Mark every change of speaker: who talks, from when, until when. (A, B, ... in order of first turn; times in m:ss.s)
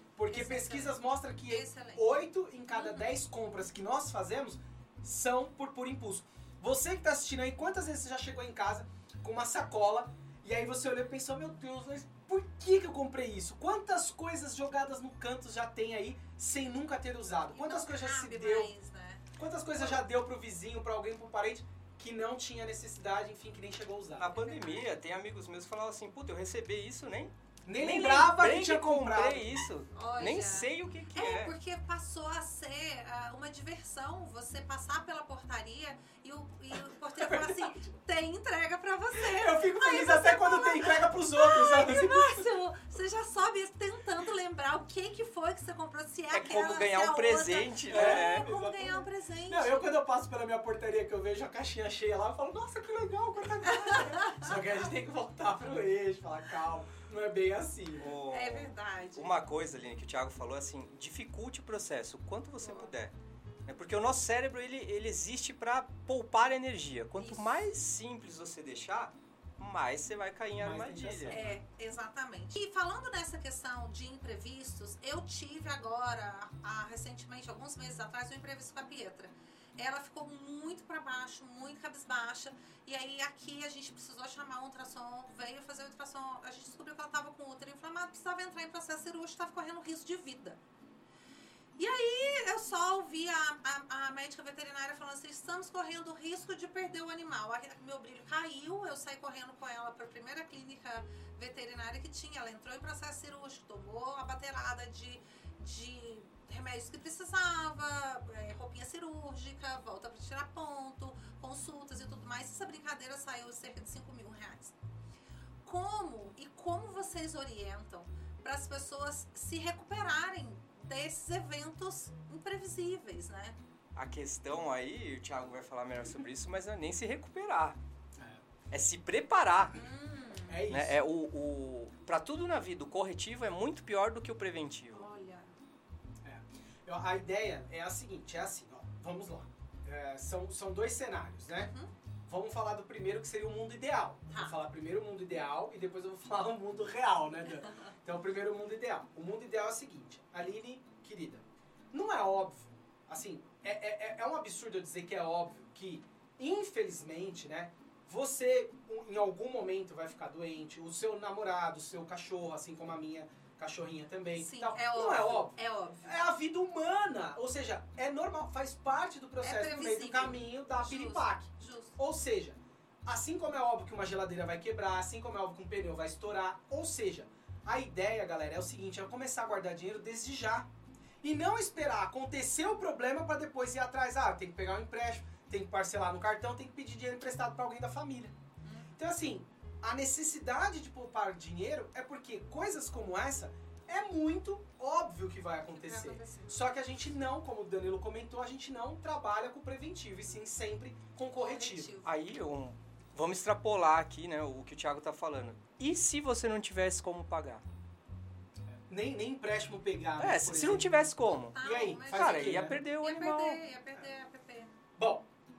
0:00.2-0:18.7 A
0:00.3-0:03.1 B
0:17.5-0:19.2 B
0:19.4-0:24.3 A
0:24.2-0:31.5 C
0:24.3-0:24.9 B
0:27.6-0:29.4 A
0:29.9-0:50.0 B
0:37.2-0:37.7 A
0:39.1-0:42.5 A
0:46.3-0:48.5 C
0:47.9-0:58.1 A
0:53.9-0:54.4 B
0:58.0-1:03.1 C
0:58.3-0:59.3 B
1:02.6-1:02.9 B
1:03.6-1:11.4 C
1:07.2-1:07.7 B
1:10.6-1:11.6 A
1:11.3-1:30.6 B
1:31.8-1:54.7 B
1:55.6-2:03.6 B
2:03.9-2:07.8 C
2:08.2-2:08.4 A
2:08.7-2:09.8 C
2:09.7-2:10.6 B
2:10.5-2:11.0 A
2:10.7-2:15.1 C
2:14.9-2:15.5 B
2:16.2-2:21.7 A
2:21.5-2:21.9 B
2:22.3-3:00.7 A
2:24.3-2:24.6 B
2:44.4-2:46.2 B
2:49.4-2:52.0 B
3:01.2-3:08.3 A
3:08.6-3:08.9 B
3:09.0-3:21.9 A
3:15.7-3:16.7 B
3:21.3-3:22.1 B
3:22.0-3:27.6 C
3:28.9-3:32.8 A
3:30.2-3:31.6 C
3:31.2-3:34.8 B
3:32.1-3:33.6 C
3:35.0-3:35.3 A